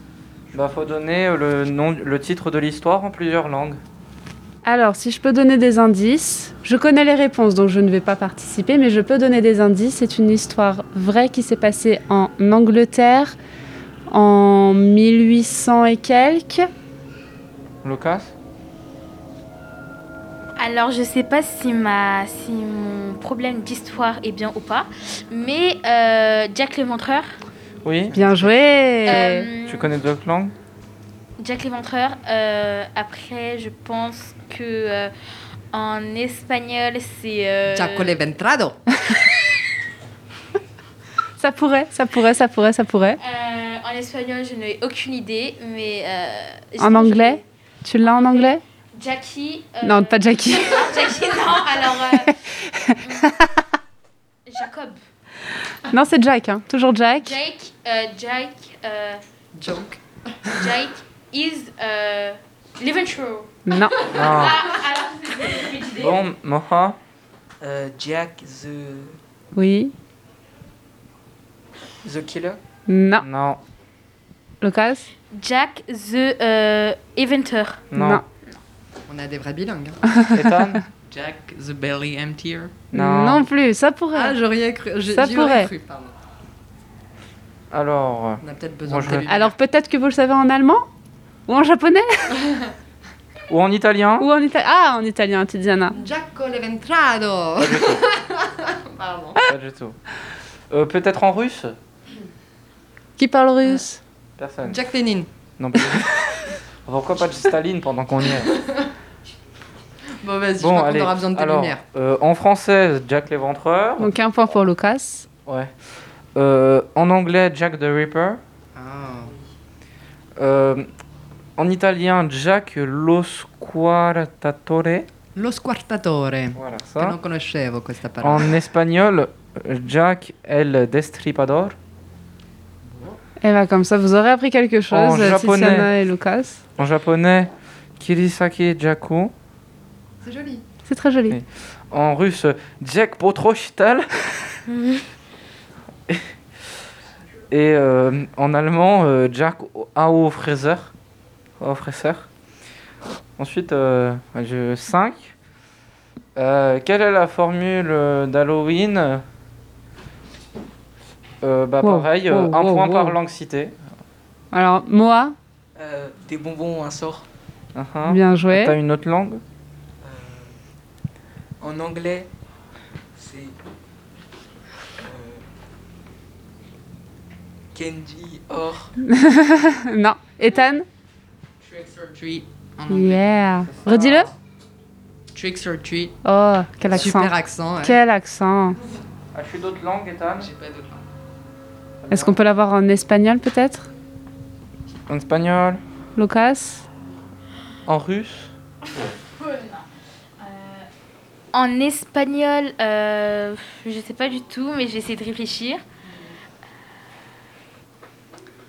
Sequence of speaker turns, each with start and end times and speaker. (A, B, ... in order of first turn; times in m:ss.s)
0:00.5-0:03.8 A
0:04.6-0:13.4 B
0:14.1-0:16.7 B
0:17.8-0:18.3 A
0:20.6-0:27.4 C
0:27.8-0:28.4 A
0:28.1-0:28.6 D
0:28.1-0:29.5 B
0:29.1-0:29.9 C
0:29.2-0:30.5 A
0:31.4-0:35.1 C
0:35.7-0:38.2 C
0:37.7-0:38.9 D
0:41.4-0:43.2 B
0:43.2-0:47.4 C
0:46.8-0:48.6 B
0:48.0-0:52.3 C
0:49.8-0:50.8 B
0:52.2-0:53.3 B
0:54.5-0:55.0 C
0:55.9-0:57.3 B
0:57.2-0:59.2 C
0:59.6-1:00.6 D
1:00.5-1:06.2 C
1:03.7-1:04.0 B
1:04.1-1:04.7 A
1:05.9-1:07.0 A
1:07.6-1:09.2 E
1:09.6-1:09.9 B
1:12.0-1:12.6 E
1:12.9-1:13.3 B
1:13.2-1:13.6 A
1:14.6-1:15.1 B
1:15.3-1:17.8 C
1:17.9-1:18.2 A
1:18.0-1:18.2 B
1:19.1-1:20.0 D
1:20.2-1:20.8 B
1:20.3-1:20.8 A
1:21.1-1:22.9 F
1:22.9-1:23.5 A
1:22.9-1:24.4 B
1:24.1-1:26.2 D
1:25.1-1:25.7 B
1:27.7-1:29.4 A
1:28.4-1:29.4 D
1:29.3-1:30.9 B
1:31.5-1:32.4 B
1:33.5-1:34.3 A
1:34.2-1:36.0 B
1:35.9-1:39.4 D
1:37.6-1:38.0 A
1:39.5-1:40.0 A
1:40.7-1:41.8 A
1:43.2-1:44.0 B
1:44.4-1:44.8 A
1:44.6-1:45.3 D
1:45.6-1:48.6 A
1:50.2-1:51.8 D
1:50.6-1:54.2 A
1:54.0-1:55.3 B
1:55.4-1:55.7 A
1:56.4-1:58.4 A
1:58.7-1:59.3 D
2:00.4-2:00.9 A
2:01.6-2:05.1 A
2:05.4-2:08.5 D
2:06.5-2:07.2 A
2:08.2-2:11.8 A
2:12.8-2:13.2 D
2:13.4-2:16.6 B
2:14.9-2:15.9 A
2:16.8-2:19.3 A
2:20.2-2:20.6 D
2:20.9-2:21.4 B
2:21.3-2:24.6 A
2:27.5-2:30.9 A
2:31.6-2:32.3 A
2:33.4-2:35.3 A
2:36.4-2:39.2 A
2:41.4-2:43.8 A
2:41.8-2:43.2 B
2:44.5-2:45.4 B
2:45.8-2:47.2 E
2:47.8-2:49.4 A
2:48.0-2:48.8 B
2:50.0-2:50.5 E
2:51.6-2:52.3 E
2:53.2-2:53.5 E
2:55.0-2:55.4 E
2:57.8-2:58.9 E
2:59.0-3:00.9 B
3:01.6-3:03.2 F
3:02.9-3:04.3 B
3:03.6-3:04.3 A
3:05.3-3:06.2 F
3:06.2-3:08.8 B
3:06.9-3:08.0 D
3:09.3-3:10.5 A
3:10.4-3:11.0 F
3:12.0-3:12.4 A
3:12.1-3:13.9 B
3:15.1-3:15.8 A
3:16.2-3:16.8 B
3:17.9-3:18.5 A
3:19.0-3:19.9 C
3:20.4-3:20.9 C
3:21.5-3:25.8 C